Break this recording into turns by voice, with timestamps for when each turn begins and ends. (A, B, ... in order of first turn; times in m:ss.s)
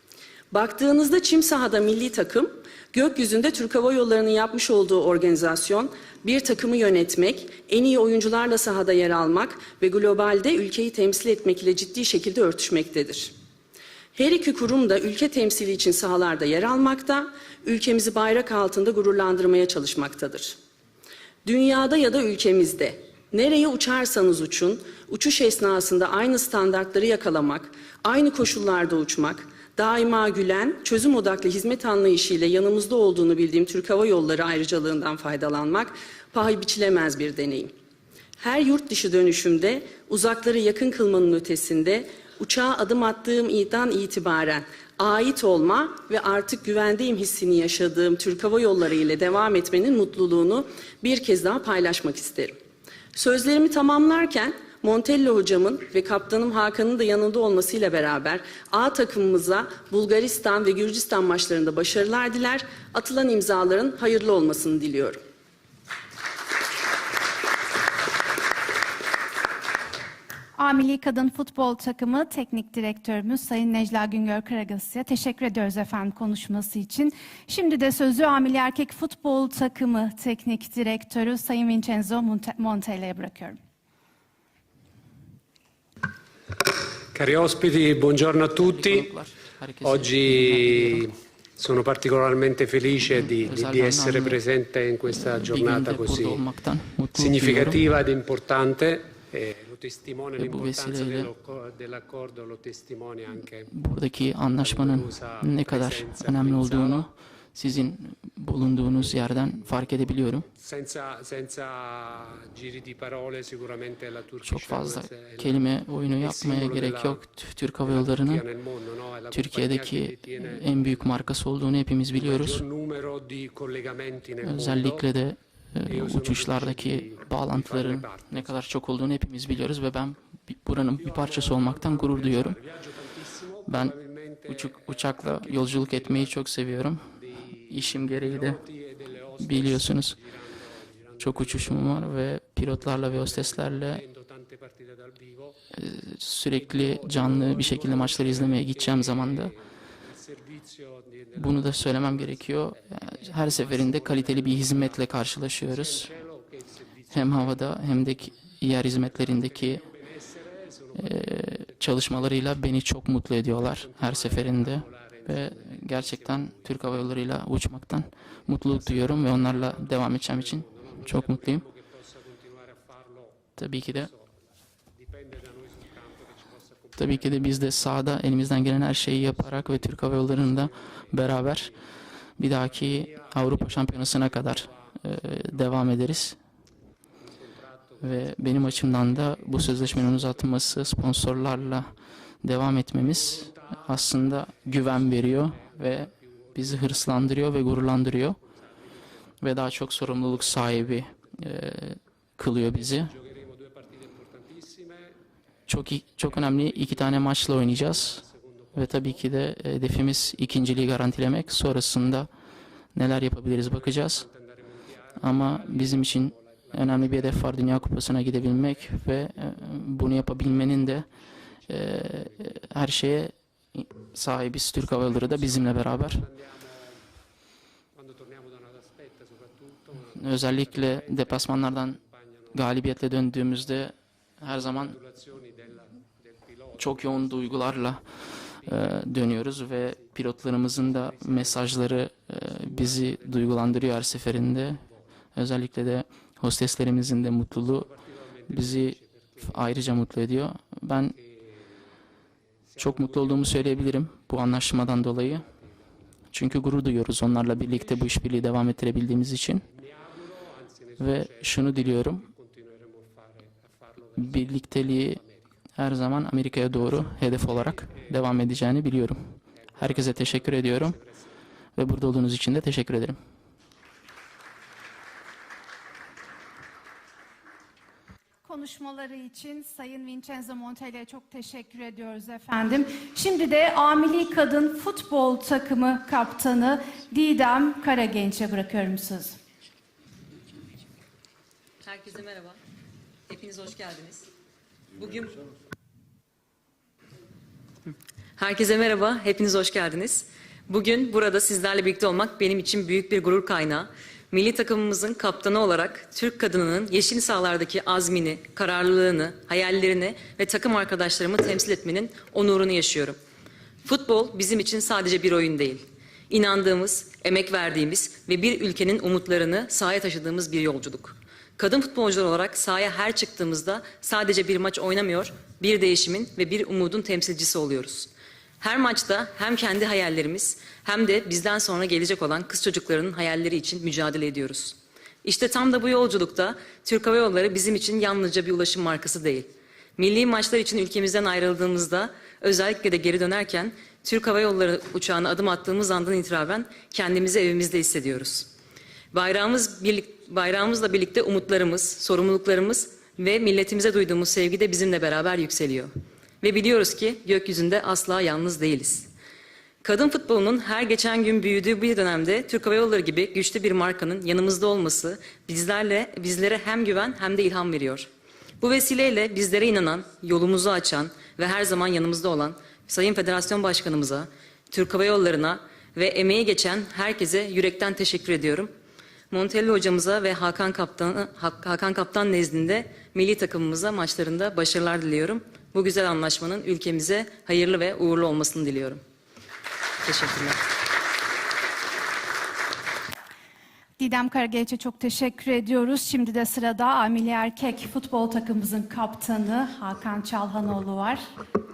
0:00.5-0:13.3 A
0:14.1-0:20.6 A
0:21.4-0:37.7 A
0:38.4-0:52.6 A
0:53.1-1:05.2 A
1:10.6-1:23.6 B
1:27.1-1:29.1 C
1:28.5-1:31.0 D
1:29.8-1:36.4 C
1:33.1-1:34.4 D
1:35.1-1:37.8 D
1:37.1-1:43.7 C
1:40.4-1:41.3 D
1:43.7-1:50.4 D
1:44.6-1:47.1 C
1:48.6-2:01.3 C
1:54.4-1:58.4 D
1:59.3-2:02.6 D
2:02.1-2:05.1 C
2:04.4-2:12.6 D
2:05.8-2:08.6 C
2:10.9-2:25.6 C
2:13.7-2:13.9 D
2:14.5-2:17.1 D
2:17.7-2:18.6 D
2:19.4-2:20.2 D
2:21.2-2:24.0 D
2:25.7-2:29.5 D
2:26.5-2:42.6 C
2:31.3-2:36.1 D
2:37.1-2:39.8 D
2:41.0-2:51.6 D
2:43.5-2:47.4 C
2:48.4-3:06.2 C
2:53.6-2:54.1 D
2:57.0-3:01.7 D
3:02.4-3:06.4 D
3:07.2-3:12.0 C
3:08.0-3:11.9 D
3:12.4-3:18.4 D
3:12.6-3:21.2 C
3:19.4-3:23.1 D
3:22.4-3:32.3 C
3:25.7-3:32.3 D
3:32.9-3:34.3 D
3:33.1-3:43.0 C
3:35.2-3:41.1 D
3:41.7-3:46.2 D
3:44.7-3:47.1 C
3:47.9-3:53.7 C
3:50.2-3:52.0 D
3:52.5-3:55.0 D
3:54.5-4:05.1 C
3:56.8-3:58.0 D
3:58.6-4:04.8 D
4:05.3-4:07.9 D
4:07.4-4:09.9 C
4:08.5-4:11.1 D
4:11.1-4:11.9 C
4:12.7-4:16.1 C
4:12.8-4:15.5 D
4:16.3-4:19.6 D
4:17.2-4:25.6 C
4:21.0-4:22.3 D
4:24.2-4:25.2 D
4:25.7-4:31.0 D
4:26.7-4:28.9 C
4:29.5-4:31.4 C
4:31.8-4:33.2 D
4:38.4-4:49.4 B
4:51.8-4:52.6 E
4:53.3-4:54.3 E
4:54.9-4:55.4 E
4:58.4-5:13.2 E
5:13.8-5:48.5 E
5:49.1-5:59.1 E
5:59.8-6:08.1 E
6:08.6-6:18.7 E
6:19.3-6:29.0 E
6:30.0-6:30.6 E
6:34.0-6:41.3 B